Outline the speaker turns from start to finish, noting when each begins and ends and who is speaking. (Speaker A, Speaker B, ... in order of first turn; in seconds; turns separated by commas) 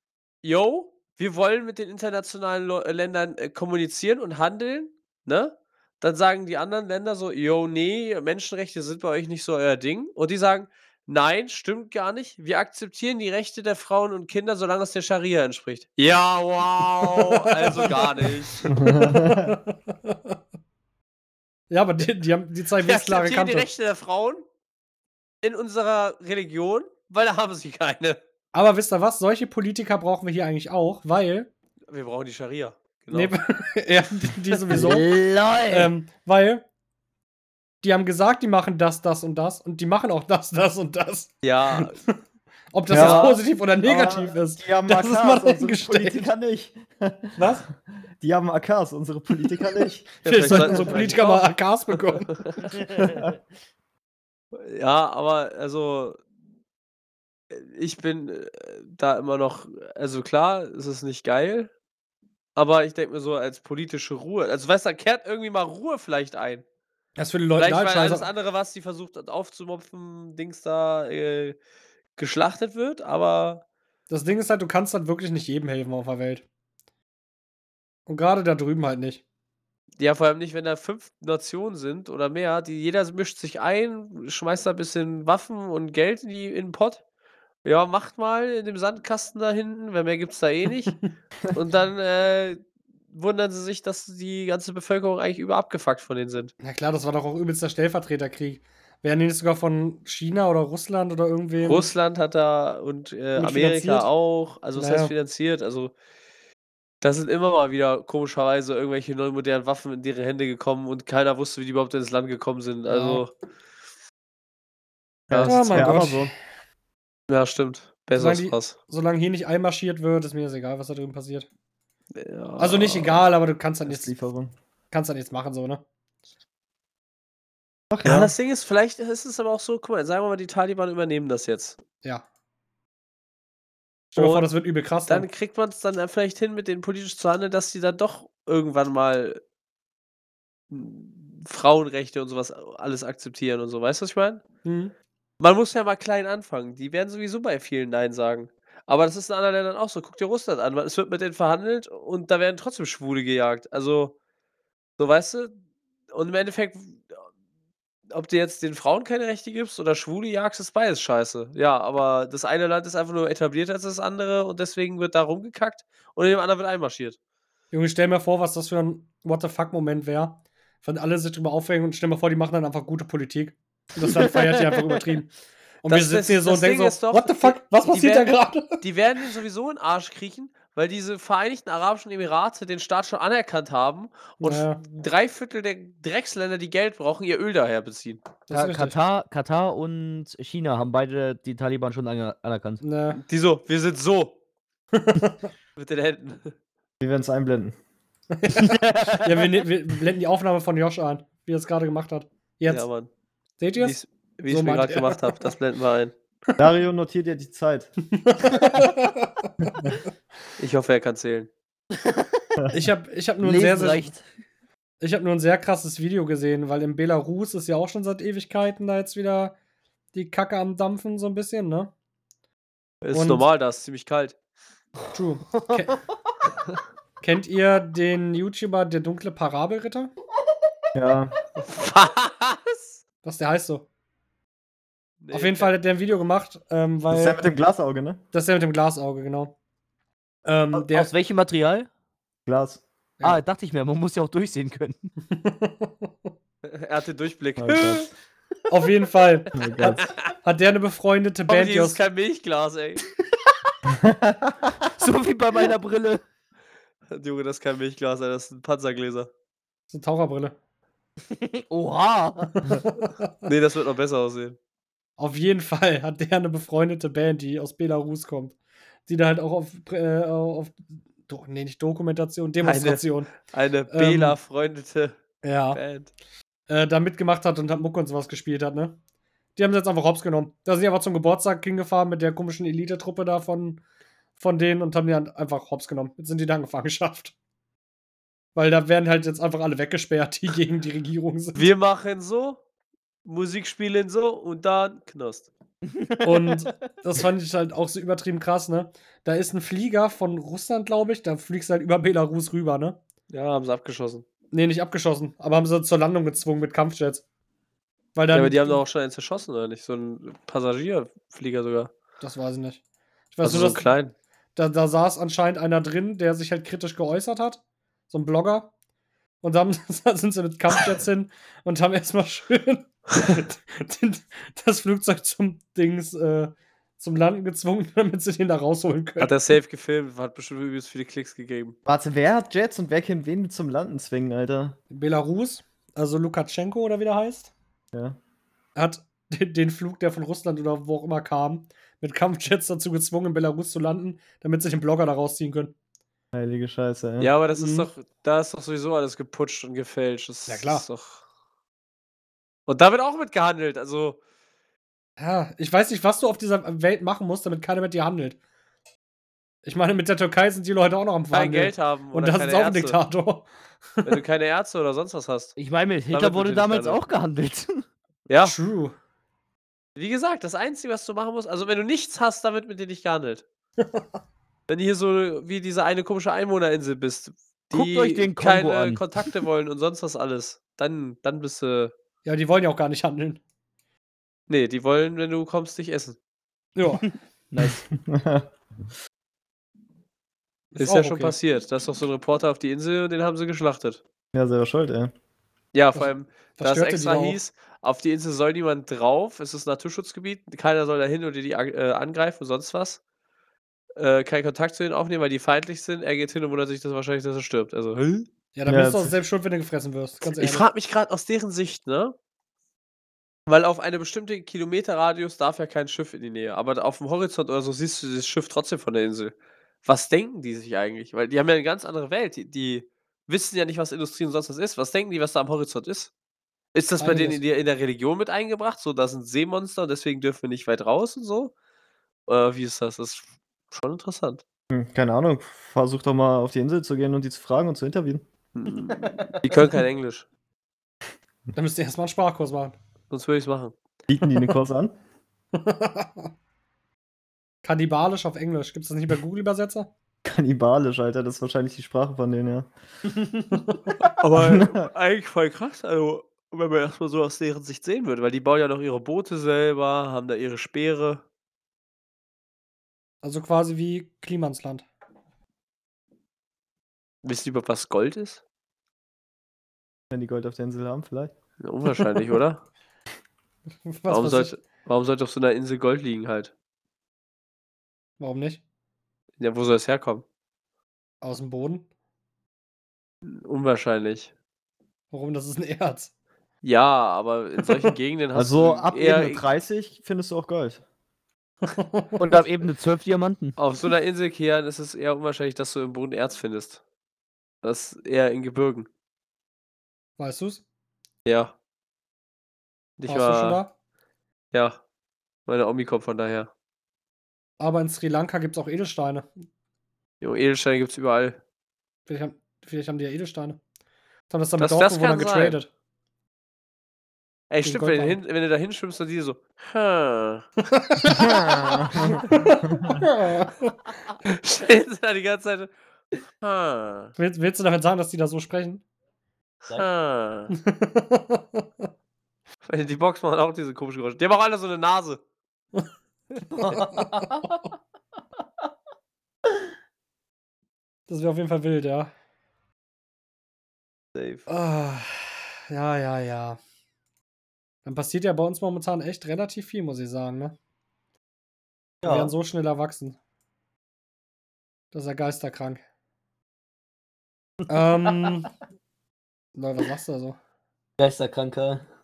Speaker A: 0.4-18.6, Speaker B: 17.2-20.4, Speaker C: 18.7-19.6, Speaker B: 21.7-23.7, Speaker A: 22.8-24.4, Speaker A: 25.4-28.2, Speaker B: 28.5-31.5, Speaker A: 31.9-33.3, Speaker B: 33.1-35.1, Speaker D: 34.7-35.9, Speaker B: 35.7-36.6, Speaker B: 37.8-42.1, Speaker A: 41.4-42.0, Speaker B: 42.7-46.3, Speaker A: 42.9-43.4, Speaker C: 42.9-47.5, Speaker B: 47.4-47.6, Speaker C: 48.2-51.1, Speaker B: 50.2-52.4, Speaker A: 50.2-52.6, Speaker C: 52.9-53.4, Speaker A: 54.5-56.2, Speaker A: 57.5-61.7, Speaker A: 62.5-66.6, Speaker B: 67.2-68.3, Speaker A: 67.6-71.5, Speaker A: 72.2-73.6, Speaker B: 74.1-76.4, Speaker B: 78.1-79.2, Speaker A: 80.0-87.0, Speaker A: 87.6-96.5, Speaker B: 96.6-101.9, Speaker A: 101.6-105.9, Speaker B: 103.3-104.1, Speaker B: 104.7-105.1, Speaker A: 107.0-113.3, Speaker B: 112.9-113.2, Speaker A: 115.3-115.8, Speaker C: 115.3-116.3, Speaker B: 115.4-116.3, Speaker A: 117.3-118.7, Speaker B: 118.1-121.5, Speaker A: 122.1-123.2, Speaker B: 122.6-124.1, Speaker C: 123.8-124.5, Speaker B: 124.9-125.8, Speaker C: 127.9-128.3, Speaker A: 128.0-131.8, Speaker B: 134.1-135.3, Speaker A: 134.1-134.5, Speaker A: 135.1-139.4, Speaker A: 140.7-144.4, Speaker B: 144.6-144.9, Speaker A: 145.4-154.1, Speaker A: 155.0-155.5, Speaker A: 156.1-157.2, Speaker A: 158.1-167.2, Speaker B: 167.7-175.3, Speaker B: 175.8-178.8, Speaker A: 175.9-188.3, Speaker B: 184.4-184.8, Speaker B: 188.5-188.9, Speaker D: 188.5-192.8, Speaker B: 192.8-193.2, Speaker A: 193.1-194.3, Speaker B: 194.9-195.5, Speaker A: 195.8-196.5, Speaker C: 197.0-197.7, Speaker B: 198.3-202.9, Speaker D: 198.5-199.4, Speaker A: 202.7-203.1, Speaker B: 203.6-205.5, Speaker A: 203.8-206.1, Speaker C: 206.6-207.9, Speaker B: 208.1-210.0, Speaker C: 208.5-208.8, Speaker A: 210.6-211.5, Speaker D: 211.9-212.4, Speaker C: 212.6-212.8, Speaker B: 212.7-214.1, Speaker D: 213.4-214.2, Speaker B: 215.0-219.6, Speaker B: 220.1-221.9, Speaker A: 223.0-224.3, Speaker B: 223.1-223.4, Speaker B: 225.1-226.0, Speaker B: 227.2-230.1, Speaker C: 230.9-231.3, Speaker A: 231.6-233.0, Speaker B: 233.2-233.9, Speaker A: 235.2-235.7, Speaker B: 235.3-237.5, Speaker C: 237.1-238.2, Speaker B: 238.3-239.6, Speaker B: 240.4-241.1, Speaker D: 240.7-241.9, Speaker C: 242.4-242.8, Speaker D: 243.2-245.1, Speaker B: 245.3-246.3, Speaker A: 246.6-248.1, Speaker C: 247.6-248.1, Speaker B: 248.7-249.5, Speaker C: 249.5-250.1, Speaker A: 249.8-250.3, Speaker B: 250.4-252.0, Speaker A: 251.5-253.0, Speaker C: 253.8-254.7, Speaker D: 254.9-256.2, Speaker A: 257.1-259.3, Speaker B: 259.9-260.5, Speaker D: 261.3-262.7, Speaker B: 262.6-263.3, Speaker A: 263.4-264.6, Speaker B: 265.2-268.6, Speaker B: 269.1-273.3, Speaker A: 272.6-275.2, Speaker B: 273.9-274.4, Speaker B: 275.4-275.8, Speaker A: 275.7-276.1, Speaker B: 276.7-279.0, Speaker B: 279.6-283.8, Speaker B: 284.4-287.3, Speaker B: 288.5-291.7, Speaker A: 291.5-292.6, Speaker A: 293.2-295.5, Speaker D: 295.9-296.7, Speaker B: 296.2-303.0, Speaker A: 303.3-304.2, Speaker B: 304.5-307.2, Speaker B: 308.1-308.8, Speaker A: 308.3-311.9, Speaker B: 312.2-312.8, Speaker B: 313.3-313.9, Speaker A: 313.4-314.1, Speaker B: 314.6-318.7, Speaker B: 319.4-329.4, Speaker A: 329.2-331.7, Speaker C: 331.9-334.8, Speaker B: 334.9-337.5, Speaker C: 337.9-338.2, Speaker B: 338.8-345.7, Speaker C: 346.3-347.3, Speaker A: 347.2-351.2, Speaker B: 347.6-347.9, Speaker B: 350.5-350.9, Speaker A: 352.7-354.2, Speaker B: 355.2-358.4, Speaker B: 359.6-364.2, Speaker A: 361.3-363.0, Speaker A: 364.0-365.5, Speaker D: 365.6-367.8, Speaker A: 366.1-367.0, Speaker A: 368.3-368.6, Speaker B: 368.4-368.9, Speaker A: 369.9-373.4, Speaker B: 373.8-374.1, Speaker A: 374.7-381.9, Speaker D: 377.7-379.0, Speaker B: 382.2-383.4, Speaker A: 384.5-386.2, Speaker B: 386.8-387.1, Speaker D: 387.5-387.8, Speaker C: 387.9-388.5, Speaker B: 390.7-391.3, Speaker A: 390.8-394.0, Speaker C: 394.3-395.1, Speaker A: 395.7-403.0, Speaker B: 395.9-397.4, Speaker A: 404.0-408.3, Speaker B: 408.5-410.6, Speaker C: 408.7-409.1, Speaker A: 410.2-412.1, Speaker A: 413.5-426.1, Speaker A: 426.7-431.5, Speaker B: 427.0-427.4, Speaker A: 432.3-434.4, Speaker C: 434.7-438.2, Speaker A: 438.5-440.2, Speaker D: 439.1-439.6, Speaker B: 441.5-442.8, Speaker A: 443.1-443.7, Speaker C: 444.1-444.9, Speaker B: 445.5-446.3, Speaker B: 447.6-449.9, Speaker C: 450.2-452.7, Speaker B: 453.3-453.8, Speaker A: 454.0-461.2, Speaker C: 454.3-454.8, Speaker B: 463.2-464.9, Speaker A: 467.2-468.4, Speaker C: 470.1-471.3, Speaker A: 471.6-472.6, Speaker B: 473.9-474.5, Speaker A: 474.1-476.5, Speaker B: 478.2-478.6, Speaker A: 479.4-480.2, Speaker B: 481.2-481.9, Speaker A: 483.2-484.3, Speaker B: 485.1-486.1, Speaker A: 486.6-489.4, Speaker C: 488.3-490.8, Speaker B: 491.6-492.2, Speaker D: 492.1-493.6, Speaker A: 493.6-496.8, Speaker A: 497.6-498.9, Speaker B: 500.2-500.6, Speaker A: 501.2-501.5, Speaker A: 503.0-503.6, Speaker B: 503.1-503.7, Speaker A: 504.5-504.8, Speaker A: 505.5-506.5, Speaker B: 507.6-509.3, Speaker A: 510.2-511.4, Speaker B: 512.0-513.6, Speaker B: 514.3-515.7, Speaker A: 514.6-515.6, Speaker A: 517.5-520.5, Speaker B: 517.6-518.2, Speaker B: 520.7-523.8, Speaker C: 521.1-523.0, Speaker A: 524.2-525.7, Speaker A: 526.4-527.1, Speaker B: 527.2-528.8, Speaker A: 529.7-530.5, Speaker B: 530.5-531.9, Speaker A: 532.6-535.2, Speaker D: 536.5-537.7, Speaker B: 536.6-537.6, Speaker B: 541.1-542.1, Speaker A: 544.1-544.5, Speaker B: 544.5-546.6, Speaker B: 547.8-550.6, Speaker D: 552.0-552.3, Speaker B: 552.0-553.2, Speaker B: 554.9-555.8, Speaker B: 557.7-558.5, Speaker D: 558.1-558.4, Speaker B: 559.5-560.4, Speaker D: 561.0-561.8